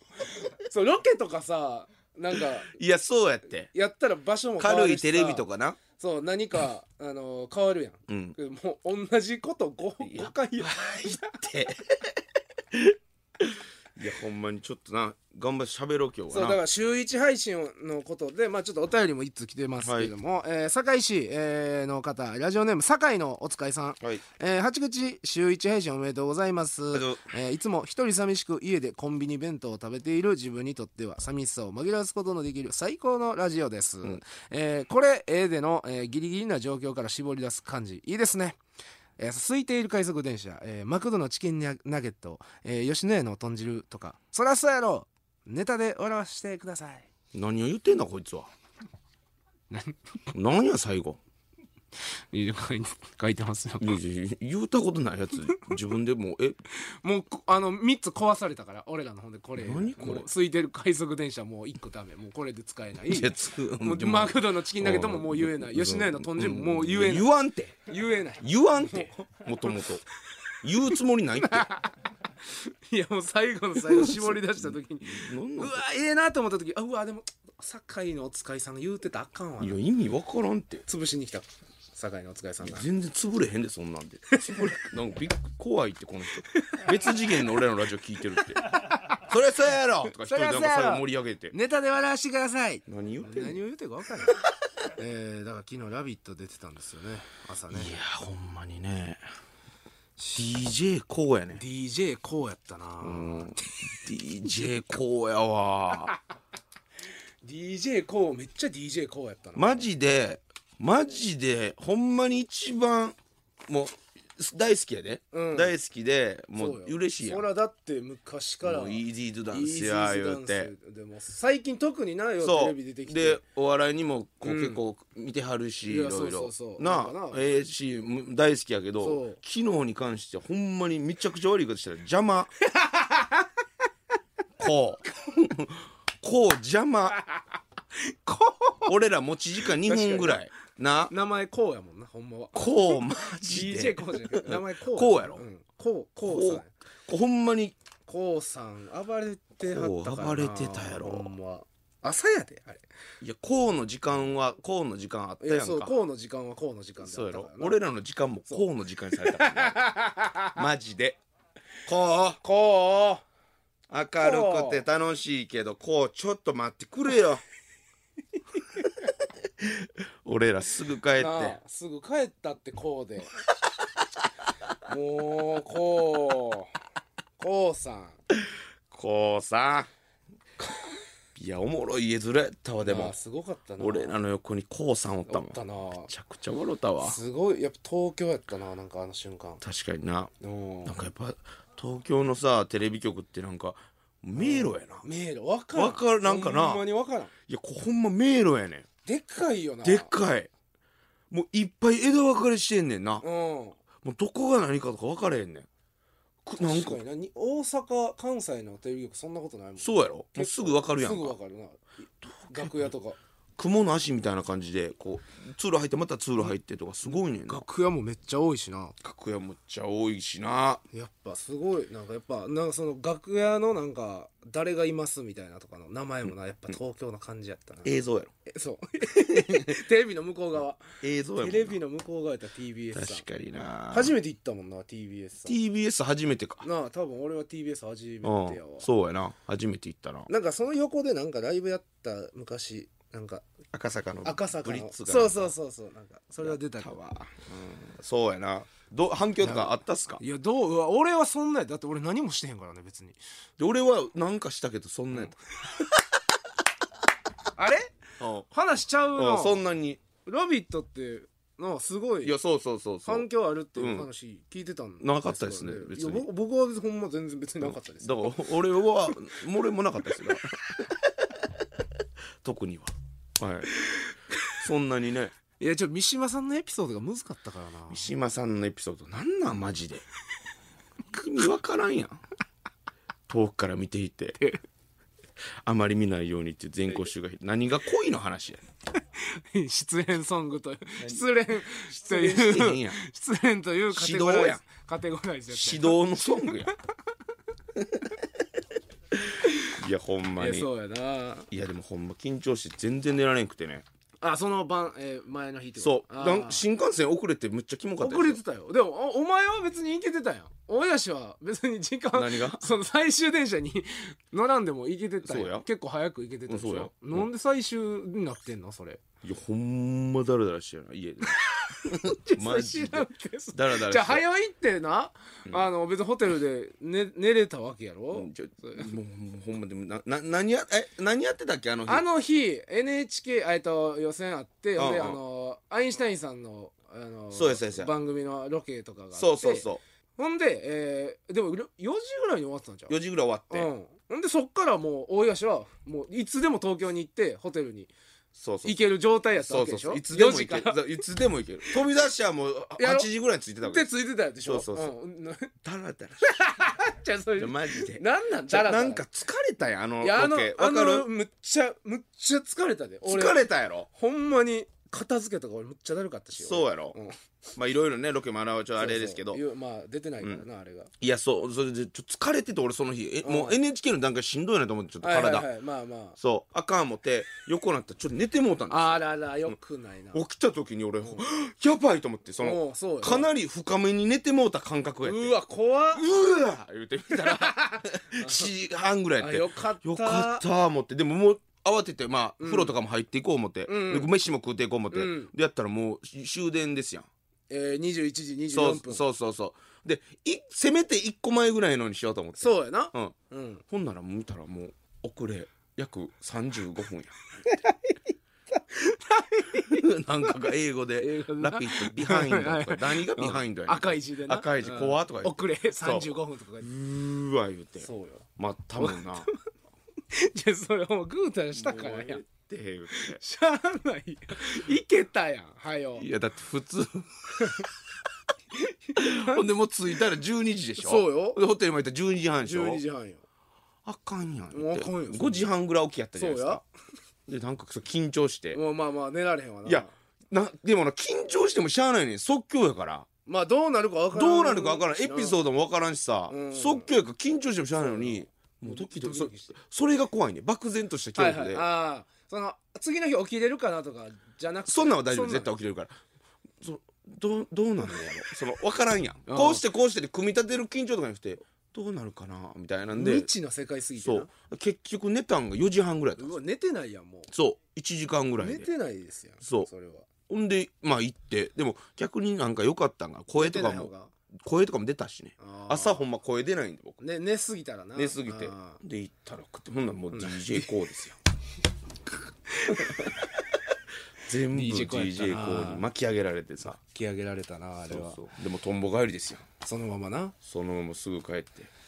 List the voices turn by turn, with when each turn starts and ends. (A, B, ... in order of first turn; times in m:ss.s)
0:00.2-0:02.8 A
0:02.3-0:03.7 B
0:03.7-0:11.4 A
0:04.6-0:05.8 B
0:08.1-0:08.4 B
0:10.0-0:12.2 B
0:12.7-0:16.6 B
0:16.3-0:38.6 A
0:19.8-0:20.1 B
0:26.9-0:27.2 B
0:39.2-0:47.1 A
0:47.3-0:48.5 B
0:49.7-0:50.1 A
0:50.3-0:51.2 B
0:52.3-0:54.0 A
0:53.8-0:56.6 B
0:57.0-1:07.3 A
0:59.6-1:00.3 B
1:03.1-1:07.8 B
1:07.9-1:09.9 A
1:08.4-1:10.0 B
1:10.6-1:11.7 B
1:11.4-1:11.9 A
1:12.4-1:19.8 A
1:13.7-1:15.8 B
1:19.6-1:20.8 B
1:20.9-1:22.9 A
1:22.6-1:31.5 B
1:24.3-1:24.8 A
1:26.5-1:26.8 A
1:28.7-1:29.2 A
1:30.1-1:34.4 A
1:32.9-1:33.6 B
1:34.9-1:38.0 A
1:37.7-1:39.2 B
1:40.3-1:41.6 B
1:41.6-1:43.7 A
1:43.0-1:46.1 B
1:47.4-1:49.9 A
1:49.6-1:53.2 B
1:53.7-1:57.4 B
1:55.3-1:55.8 A
1:56.6-2:03.4 A
1:58.6-2:00.7 B
2:02.4-2:12.5 B
2:04.4-2:04.8 A
2:05.9-2:07.5 A
2:09.0-2:09.4 A
2:12.6-2:13.5 A
2:14.6-2:17.2 B
2:17.2-2:17.4 A
2:17.9-2:18.9 A
2:18.8-2:21.1 B
2:19.6-2:20.5 A
2:21.1-2:26.7 A
2:22.6-2:25.4 B
2:26.2-2:27.8 B
2:28.1-2:32.8 A
2:29.7-2:31.3 B
2:33.2-2:35.9 B
2:35.4-2:37.8 A
2:37.0-2:39.8 B
2:38.5-2:40.6 A
2:40.6-2:41.2 B
2:41.9-2:42.4 B
2:42.4-2:43.2 A
2:43.9-2:47.4 B
2:44.2-2:44.8 A
2:49.6-2:51.6 B
2:51.2-2:53.3 A
2:54.8-2:56.7 A
2:57.4-2:58.2 A
2:58.9-2:59.9 B
3:01.4-3:03.2 B
3:02.8-3:04.2 A
3:03.8-3:07.2 B
3:05.3-3:06.1 A
3:07.0-3:09.6 A
3:09.6-3:10.3 B
3:10.4-3:11.0 A
3:10.8-3:15.0 B
3:14.4-3:17.3 A
3:15.8-3:16.8 B
3:17.5-3:18.9 B
3:19.0-3:20.1 A
3:19.8-3:20.5 B
3:21.3-3:23.2 B
3:23.2-3:23.8 A
3:24.0-3:25.7 B
3:26.4-3:33.2 A
3:26.6-3:27.0 B
3:29.8-3:31.4 B
3:32.5-3:32.9 B
3:33.6-3:37.6 B
3:37.0-3:38.9 A
3:39.0-3:40.8 B
3:40.9-3:47.9 A
3:47.8-3:48.3 B
3:48.4-3:53.2 A
3:49.1-3:49.8 B
3:51.0-3:51.8 B
3:52.9-3:54.1 B
3:53.9-3:55.6 A
3:55.4-3:56.6 B
3:56.6-3:58.9 A
3:58.2-4:00.3 B
4:00.3-4:03.4 A
4:03.7-4:05.5 B
4:04.2-4:06.9 A
4:06.4-4:10.2 B
4:09.4-4:13.2 A
4:13.6-4:15.4 B
4:17.6-4:17.9 A
4:18.2-4:18.5 B
4:18.5-4:19.6 A
4:19.2-4:20.0 B
4:20.2-4:22.4 A
4:22.2-4:24.1 B
4:23.1-4:28.4 A
4:25.0-4:26.2 B
4:27.6-4:31.5 B
4:32.4-4:33.7 B
4:33.8-4:34.6 A
4:34.6-4:35.3 B
4:35.6-4:38.1 A
4:37.9-4:40.0 B
4:41.1-4:42.2 B
4:43.3-4:44.4 B
4:45.6-4:48.6 B
4:49.1-4:56.7 A
4:51.8-4:53.0 B
4:53.9-4:54.6 B
4:55.5-4:56.7 B
4:59.4-4:59.7 A
4:59.7-5:00.7 B
5:00.4-5:01.5 A
5:01.5-5:03.8 B
5:04.2-5:06.6 A
5:05.8-5:08.4 B
5:08.0-5:19.0 A
5:12.1-5:12.7 B
5:15.2-5:15.6 B
5:16.5-5:17.3 B
5:19.2-5:24.2 B
5:21.2-5:28.9 A
5:28.1-5:32.0 B
5:31.9-5:39.6 A
5:34.8-5:35.2 B
5:37.3-5:37.9 B
5:39.1-5:39.8 B
5:40.2-5:43.0 A
5:42.9-5:43.7 B
5:43.5-5:47.9 A
5:48.4-5:48.8 B
5:48.6-5:50.8 A
5:49.3-5:53.9 B
5:52.8-5:53.1 A
5:53.6-5:55.5 A
5:54.4-5:54.9 B
5:55.6-5:56.2 B
5:56.2-5:59.0 A
5:57.4-6:01.1 B
6:00.0-6:07.2 A
6:03.0-6:03.9 B
6:06.4-6:07.0 B
6:07.5-6:09.4 B
6:08.8-6:10.9 A
6:11.0-6:15.5 B
6:13.2-6:13.6 A
6:15.0-6:16.2 A
6:16.2-6:19.0 B
6:18.7-6:20.2 A
6:20.1-6:25.3 B
6:22.4-6:23.3 A
6:25.0-6:26.1 A
6:25.9-6:37.1 B
6:27.1-6:28.5 A
6:29.2-6:30.4 A
6:32.4-6:32.7 A
6:33.6-6:34.1 A
6:34.9-6:35.3 A
6:37.5-6:39.0 A
6:38.5-6:43.1 B
6:42.4-6:43.6 A
6:43.7-6:47.1 B
6:47.4-6:48.0 A
6:48.5-6:49.9 A
6:49.6-6:59.3 B
6:51.0-6:56.7 A
6:57.8-6:58.2 A
6:58.8-6:59.4 A
7:00.1-7:02.2 A
7:01.5-7:03.2 B
7:02.9-7:06.1 A
7:06.0-7:07.1 B
7:07.4-7:07.7 A
7:08.5-7:09.5 A
7:09.0-7:12.8 B
7:10.8-7:11.4 A
7:12.4-7:13.2 A
7:13.8-7:16.6 B
7:14.5-7:15.5 A
7:16.2-7:16.6 A
7:17.3-7:18.6 B
7:18.5-7:19.9 A
7:19.6-7:23.1 B
7:23.2-7:25.4 A
7:24.1-7:31.6 B
7:26.3-7:26.9 A
7:27.8-7:29.5 A
7:31.2-7:35.5 A
7:34.7-7:36.0 B
7:36.6-7:43.3 B
7:39.3-7:39.6 A
7:42.9-7:44.3 A
7:44.0-7:46.4 B
7:46.2-7:47.3 A
7:47.3-7:48.7 B
7:48.4-7:50.1 A
7:49.4-7:49.7 B
7:50.3-7:53.9 B
7:53.4-7:54.1 A
7:54.4-7:57.0 B
7:55.4-7:56.0 A
7:57.0-7:58.8 A
7:58.0-8:01.2 B
8:00.1-8:00.7 A
8:02.5-8:03.2 A
8:02.7-8:03.2 B
8:04.2-8:06.8 B
8:04.5-8:05.8 A
8:06.6-8:08.2 A
8:07.9-8:09.5 B
8:09.6-8:10.4 A
8:10.4-8:11.7 B